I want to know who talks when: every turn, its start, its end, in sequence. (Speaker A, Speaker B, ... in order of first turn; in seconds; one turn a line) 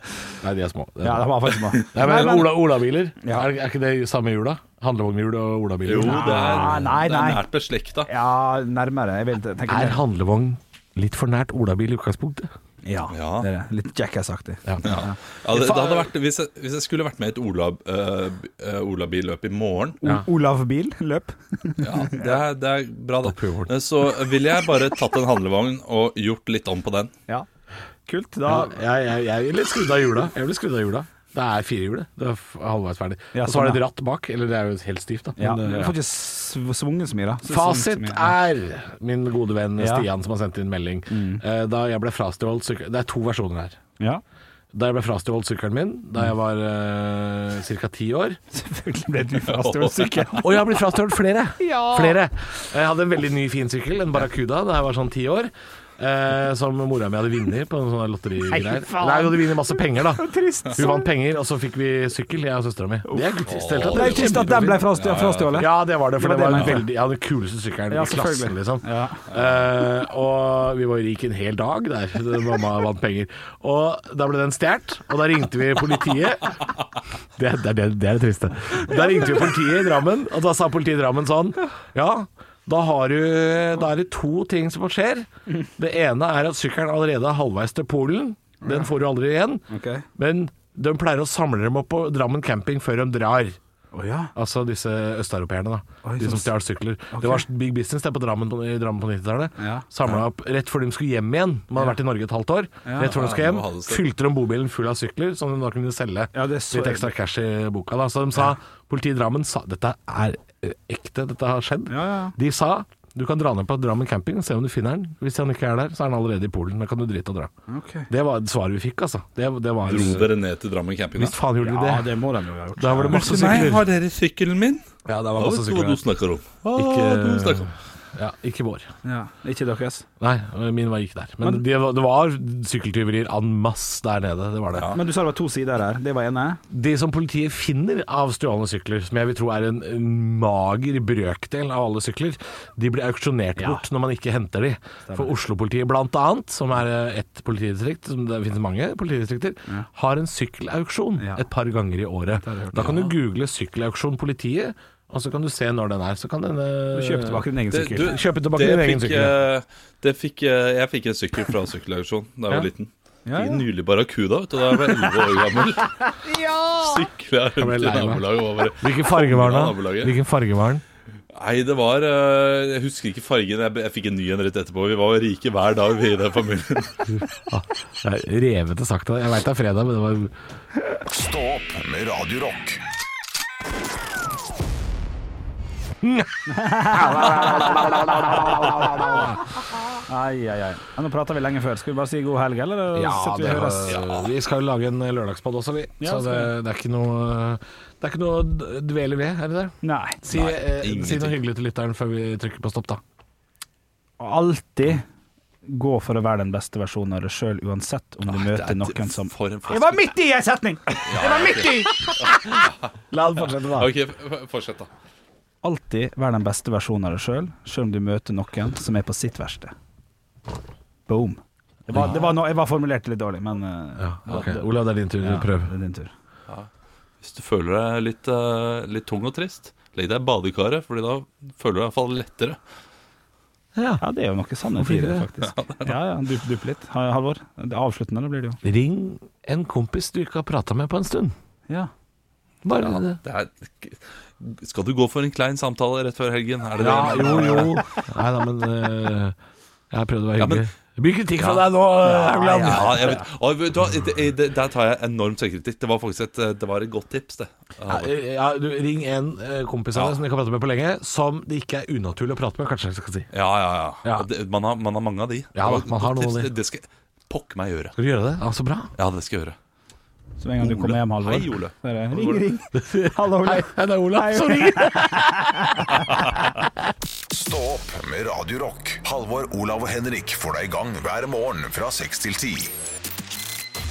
Speaker A: 0.4-1.3
Speaker B: 1.0-2.6
Speaker A: 1.9-6.8
Speaker B: 3.2-3.5
Speaker C: 5.8-8.1
Speaker B: 6.0-7.5
Speaker B: 8.1-10.0
Speaker A: 9.7-12.5
Speaker B: 12.8-15.2
Speaker C: 13.1-13.5
Speaker C: 14.8-20.0
Speaker A: 15.5-16.1
Speaker B: 20.0-22.3
Speaker C: 21.8-27.1
Speaker A: 23.2-23.7
Speaker B: 28.1-28.7
Speaker A: 28.5-36.0
Speaker B: 33.3-33.8
Speaker B: 35.4-38.4
Speaker A: 37.5-43.8
Speaker B: 39.8-40.1
Speaker B: 41.1-41.4
Speaker A: 44.7-48.4
Speaker B: 48.5-50.5
Speaker C: 49.4-50.7
Speaker A: 50.4-64.8
Speaker B: 51.6-52.2
Speaker B: 58.5-61.1
Speaker B: 63.1-66.8
Speaker C: 63.5-65.7
Speaker A: 65.6-76.7
Speaker B: 67.9-69.2
Speaker A: 77.4-89.6
Speaker B: 88.6-88.9
Speaker B: 89.7-90.0
Speaker A: 90.2-93.6
Speaker B: 93.9-94.3
Speaker A: 94.3-117.5
Speaker B: 96.0-96.5
Speaker B: 97.1-97.4
Speaker B: 99.6-100.1
Speaker B: 102.8-103.1
Speaker C: 103.0-104.0
Speaker B: 106.3-107.1
Speaker B: 111.9-112.3
Speaker B: 117.7-118.1
Speaker A: 118.1-120.3
Speaker C: 119.8-121.3
Speaker A: 121.2-122.1
Speaker B: 121.6-123.8
Speaker A: 122.8-123.8
Speaker C: 123.1-127.7
Speaker A: 125.1-126.0
Speaker A: 126.8-128.9
Speaker B: 129.0-130.1
Speaker A: 130.2-134.9
Speaker C: 134.7-135.0
Speaker B: 134.9-136.6
Speaker A: 136.7-157.4
Speaker B: 145.1-145.3
Speaker B: 152.4-153.1
Speaker C: 152.8-153.1
Speaker B: 156.9-158.2
Speaker C: 157.7-165.9
Speaker A: 158.0-159.3
Speaker B: 163.3-163.7
Speaker B: 166.2-167.0
Speaker C: 166.8-170.2
Speaker A: 167.6-170.8
Speaker C: 171.3-177.1
Speaker A: 177.5-180.3
Speaker D: 181.1-182.8
Speaker A: 186.0-189.6
Speaker B: 186.5-187.8
Speaker B: 190.1-194.0
Speaker A: 192.9-203.0
Speaker C: 193.9-194.2
Speaker B: 196.0-196.5
Speaker B: 199.8-200.2
Speaker C: 200.3-201.4
Speaker B: 204.2-205.1
Speaker B: 205.7-212.3
Speaker C: 208.3-210.1
Speaker C: 211.1-212.8
Speaker B: 213.1-213.9
Speaker C: 213.7-214.9
Speaker B: 215.6-219.7
Speaker B: 221.1-224.6
Speaker A: 224.0-225.7
Speaker B: 225.2-226.1
Speaker C: 227.2-232.6
Speaker A: 233.8-234.0
Speaker B: 234.0-238.6
Speaker A: 234.8-235.2
Speaker C: 235.4-235.9
Speaker A: 238.6-241.3
Speaker A: 242.6-243.2
Speaker C: 242.8-247.8
Speaker A: 246.8-249.3
Speaker B: 246.9-247.8
Speaker A: 249.9-253.2
Speaker C: 250.4-250.7
Speaker C: 251.4-251.7
Speaker B: 252.1-253.2
Speaker C: 252.5-258.1
Speaker A: 257.9-263.3
Speaker C: 259.9-260.2
Speaker C: 263.3-268.0
Speaker A: 265.6-266.5
Speaker A: 268.0-268.9
Speaker C: 269.0-269.6
Speaker B: 270.4-276.2
Speaker C: 270.6-272.4
Speaker A: 272.8-275.8
Speaker D: 277.3-282.7